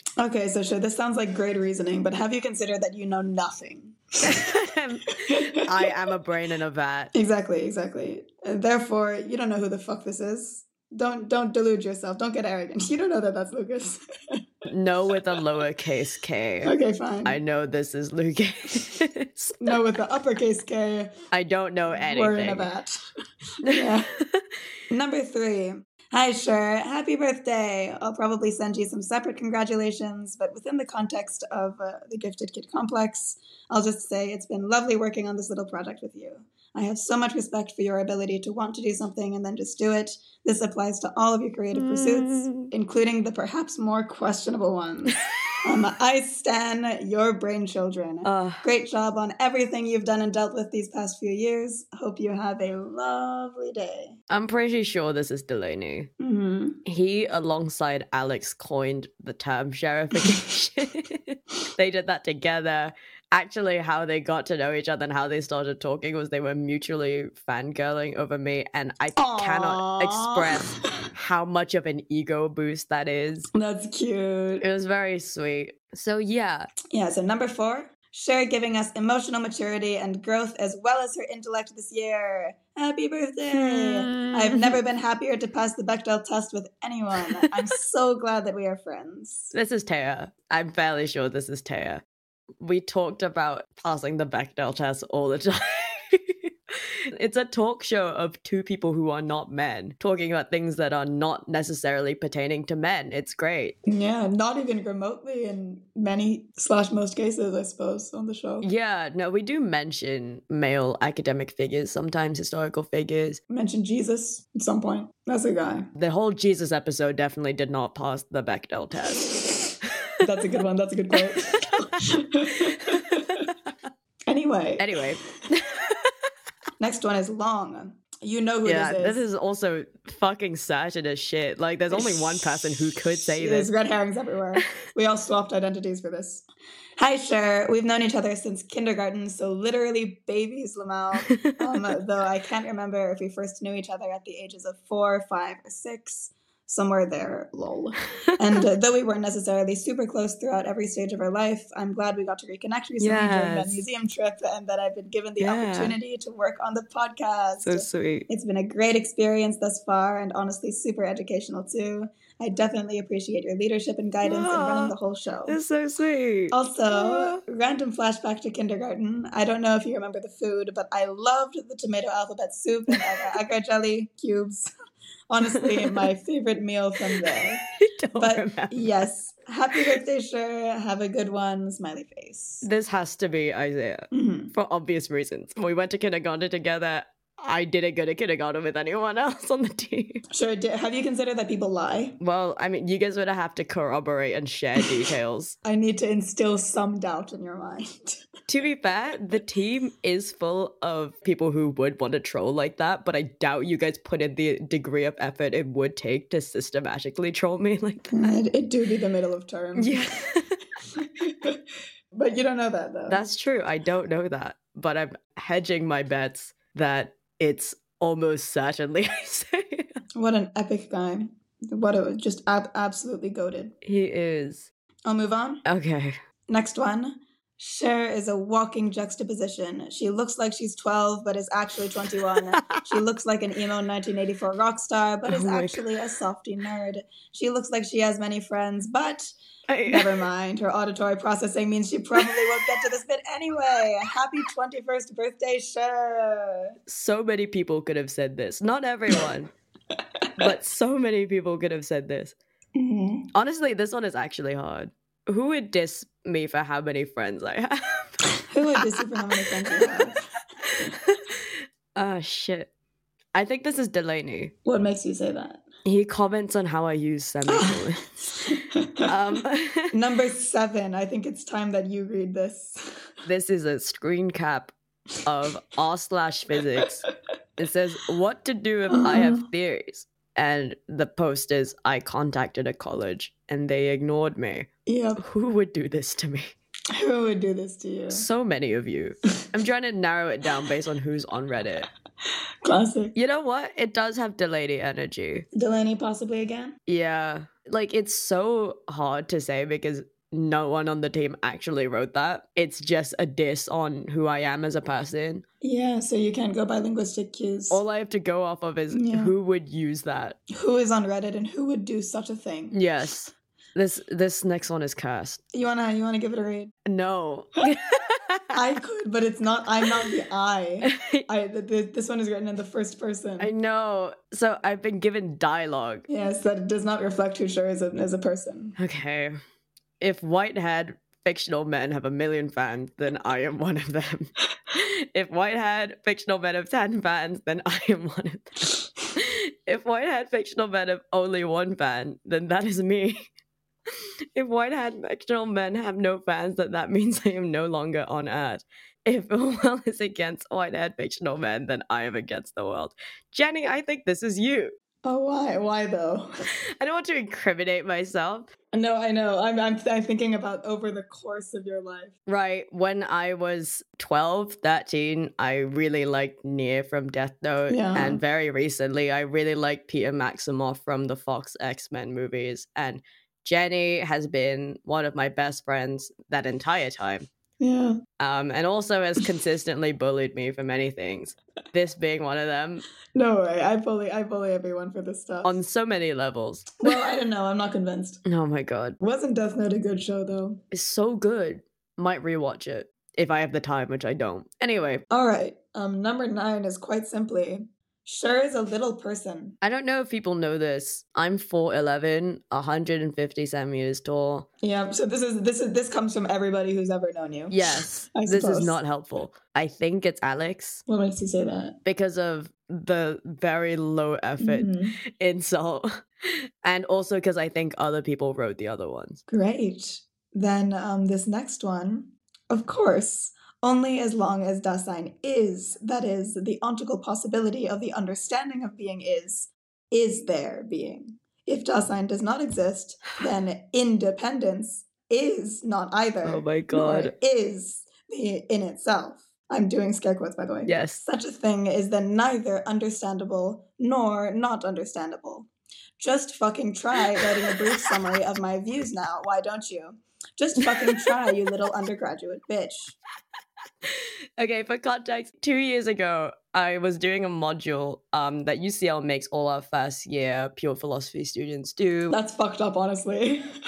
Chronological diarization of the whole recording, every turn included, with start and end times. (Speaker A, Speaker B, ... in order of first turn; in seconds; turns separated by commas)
Speaker A: 0.2-4.0, Speaker B: 4.2-7.1, Speaker A: 5.3-5.8, Speaker A: 7.1-14.0, Speaker B: 14.7-16.7, Speaker A: 16.6-17.4, Speaker B: 17.2-19.7, Speaker A: 19.6-21.1, Speaker B: 21.3-22.7, Speaker A: 21.9-22.9, Speaker A: 23.7-24.1, Speaker A: 24.9-54.2, Speaker B: 41.7-42.5, Speaker B: 48.2-48.6, Speaker B: 54.3-56.1, Speaker A: 56.2-56.8, Speaker B: 56.9-73.5, Speaker A: 69.2-70.8, Speaker A: 73.5-74.7, Speaker B: 74.6-76.7, Speaker A: 76.9-89.5, Speaker B: 83.5-84.8, Speaker B: 89.5-92.0, Speaker B: 92.6-96.3, Speaker B: 97.2-103.8, Speaker A: 103.9-108.7, Speaker B: 108.6-113.4, Speaker A: 113.5-115.9, Speaker B: 116.0-119.4, Speaker A: 120.2-123.2, Speaker B: 122.9-123.5, Speaker A: 124.3-125.0, Speaker B: 124.8-126.1, Speaker A: 126.8-129.2, Speaker B: 128.7-133.7, Speaker A: 131.9-136.4, Speaker A: 137.0-165.6, Speaker B: 153.0-153.9, Speaker B: 155.4-155.9, Speaker B: 157.6-158.3, Speaker B: 164.2-164.9, Speaker B: 165.5-167.4, Speaker A: 166.5-174.7, Speaker A: 175.3-177.6, Speaker B: 177.3-178.8, Speaker A: 178.2-182.7, Speaker B: 182.6-190.2, Speaker A: 184.1-184.5, Speaker A: 190.3-192.2, Speaker B: 192.2-195.6, Speaker A: 195.6-198.2, Speaker B: 198.5-208.1, Speaker A: 208.1-210.0, Speaker B: 209.8-210.6, Speaker A: 212.1-213.2, Speaker B: 213.1-219.9, Speaker A: 220.2-223.8, Speaker B: 223.8-224.7, Speaker A: 225.1-225.6, Speaker B: 225.7-226.2, Speaker A: 226.5-239.3, Speaker B: 235.3-236.0, Speaker B: 239.7-240.2, Speaker A: 239.9-246.7, Speaker B: 246.9-249.5, Speaker B: 250.4-252.4, Speaker A: 252.8-253.3, Speaker B: 253.3-258.0, Speaker A: 258.5-260.2, Speaker B: 260.7-261.4, Speaker B: 261.9-262.7, Speaker B: 263.4-264.5, Speaker A: 264.6-265.6, Speaker B: 265.9-268.1, Speaker A: 267.5-267.8, Speaker A: 268.5-269.0, Speaker B: 269.1-269.9, Speaker A: 269.9-273.1, Speaker B: 273.3-274.7, Speaker B: 275.3-277.0, Speaker B: 277.6-286.5, Speaker A: 278.9-279.5, Speaker A: 284.9-285.2, Speaker A: 286.9-288.3, Speaker B: 288.1-291.9, Speaker A: 292.6-293.1, Speaker B: 293.1-295.5, Speaker A: 295.5-296.8, Speaker B: 296.9-305.4, Speaker A: 305.6-307.8, Speaker B: 307.7-310.4, Speaker A: 308.9-309.4, Speaker A: 310.5-312.8, Speaker B: 312.7-315.4, Speaker A: 315.5-316.7, Speaker B: 316.9-318.3, Speaker A: 318.5-323.5, Speaker B: 320.9-321.2, Speaker B: 323.4-326.1, Speaker A: 326.1-328.8, Speaker B: 328.8-329.4, Speaker B: 330.0-343.2, Speaker B: 344.4-354.8, Speaker A: 355.0-356.3, Speaker B: 356.8-358.5, Speaker A: 358.7-362.1, Speaker B: 362.3-377.3, Speaker A: 367.7-368.2, Speaker A: 377.6-378.0, Speaker B: 378.2-382.9, Speaker A: 383.1-385.6, Speaker B: 385.4-386.9, Speaker A: 386.8-388.2, Speaker B: 388.2-389.0, Speaker A: 389.0-390.6, Speaker B: 390.7-395.0, Speaker A: 395.1-399.6, Speaker B: 399.6-404.5, Speaker A: 404.6-408.8, Speaker B: 407.5-410.8, Speaker A: 410.9-411.8, Speaker B: 411.9-419.2, Speaker A: 414.4-415.0, Speaker A: 419.3-453.0, Speaker B: 436.2-437.1, Speaker B: 440.7-441.1, Speaker B: 450.7-451.1, Speaker B: 454.4-462.2, Speaker A: 462.1-463.5